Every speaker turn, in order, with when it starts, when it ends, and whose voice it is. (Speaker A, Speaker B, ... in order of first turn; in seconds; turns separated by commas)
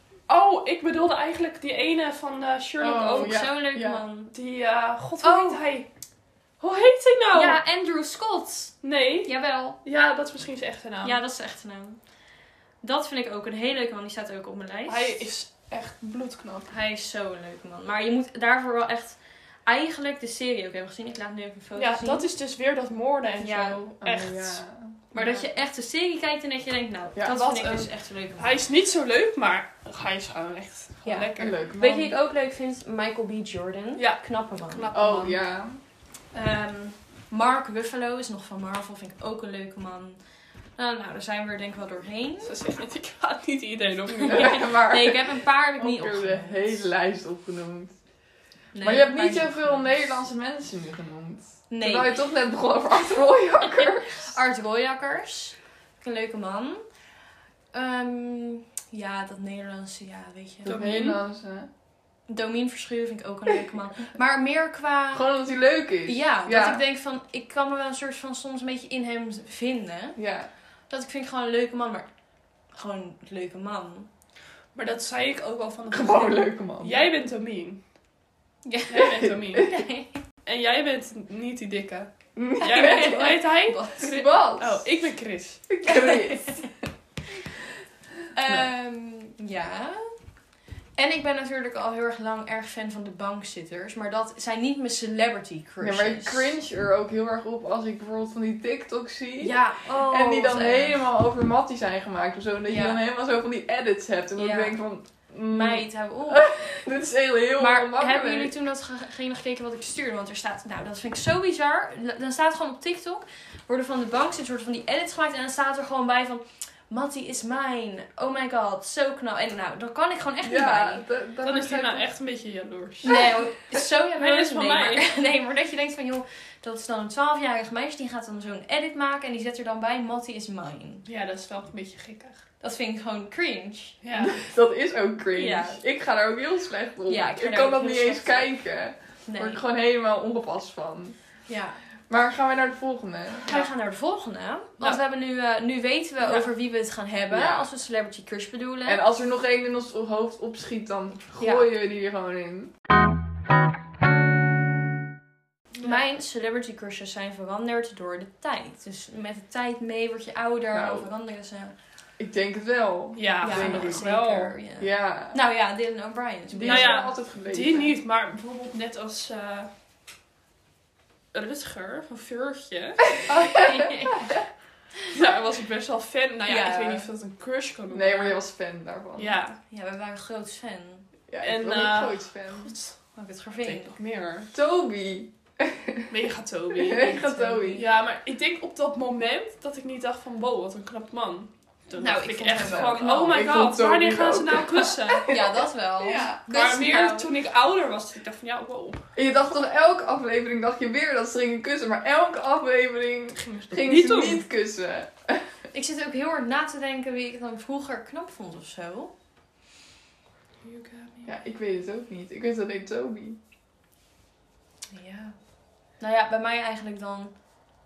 Speaker A: 0.3-3.4, Speaker B: 2.8-4.0, Speaker C: 3.0-4.3, Speaker A: 4.3-5.9, Speaker C: 5.2-5.6, Speaker A: 6.6-7.6, Speaker C: 7.3-9.8, Speaker A: 8.8-11.2, Speaker C: 11.0-12.0, Speaker C: 12.8-15.2, Speaker A: 14.9-16.7, Speaker C: 16.7-22.3, Speaker A: 21.8-24.6, Speaker C: 23.4-23.8, Speaker B: 24.0-25.0, Speaker C: 25.1-28.6, Speaker A: 25.1-25.5, Speaker B: 27.2-27.4, Speaker A: 27.3-31.6, Speaker C: 31.1-34.9, Speaker B: 31.4-32.2, Speaker A: 34.0-35.4, Speaker B: 34.9-35.8, Speaker C: 36.3-40.2, Speaker C: 40.8-42.5, Speaker A: 42.4-44.6, Speaker C: 44.2-46.8, Speaker B: 44.3-48.0, Speaker C: 48.7-50.2, Speaker B: 48.8-54.3, Speaker C: 51.7-52.1, Speaker C: 53.7-56.8, Speaker C: 57.7-60.8, Speaker A: 60.6-61.2, Speaker B: 60.7-61.7, Speaker C: 62.3-65.3, Speaker B: 65.1-66.8, Speaker C: 66.1-70.2, Speaker B: 70.2-70.5, Speaker C: 70.9-72.1, Speaker C: 72.7-74.1, Speaker A: 74.8-77.8, Speaker B: 75.9-77.0, Speaker C: 78.7-80.2, Speaker A: 78.9-79.7, Speaker A: 80.5-85.6, Speaker B: 82.4-83.4, Speaker C: 82.7-84.2, Speaker B: 84.0-84.8, Speaker B: 85.7-86.9, Speaker C: 85.9-86.6, Speaker C: 88.3-90.1, Speaker C: 91.0-96.5, Speaker B: 95.8-108.5, Speaker C: 99.4-101.0, Speaker C: 102.7-103.0, Speaker C: 104.4-104.8, Speaker C: 105.5-106.4, Speaker C: 107.6-121.0, Speaker B: 120.4-122.0, Speaker A: 121.4-123.2, Speaker C: 123.0-131.0, Speaker A: 124.2-125.1, Speaker A: 131.1-132.4, Speaker C: 132.6-134.0, Speaker A: 134.0-134.4, Speaker B: 134.2-141.2, Speaker C: 135.3-135.8, Speaker C: 137.1-138.5, Speaker C: 139.3-139.6, Speaker C: 141.5-141.8, Speaker B: 142.1-143.5, Speaker C: 143.4-149.0, Speaker B: 147.3-147.7, Speaker B: 148.8-152.7, Speaker C: 151.4-151.7, Speaker C: 155.8-161.7, Speaker B: 160.7-161.1, Speaker B: 162.2-164.1, Speaker A: 163.2-164.6, Speaker C: 163.4-167.1, Speaker B: 164.8-165.4, Speaker B: 166.5-167.9, Speaker A: 166.6-169.7, Speaker A: 171.3-173.1, Speaker C: 173.3-174.4, Speaker B: 173.3-174.1, Speaker A: 175.1-178.4, Speaker C: 176.5-177.1, Speaker B: 177.9-179.4, Speaker A: 179.2-179.6, Speaker C: 179.7-181.1, Speaker B: 181.3-182.7, Speaker A: 181.4-183.0, Speaker C: 183.2-183.9, Speaker A: 183.6-184.5, Speaker B: 184.5-186.1, Speaker A: 186.1-187.1, Speaker B: 186.7-187.8, Speaker C: 186.9-187.9, Speaker A: 187.8-195.3, Speaker C: 192.0-193.4, Speaker B: 192.6-196.4, Speaker C: 195.3-197.3, Speaker A: 196.5-199.0, Speaker B: 199.2-205.5, Speaker A: 203.4-204.4, Speaker C: 205.7-209.1, Speaker A: 210.6-211.3, Speaker B: 211.2-213.4, Speaker C: 214.9-215.4, Speaker C: 216.0-217.3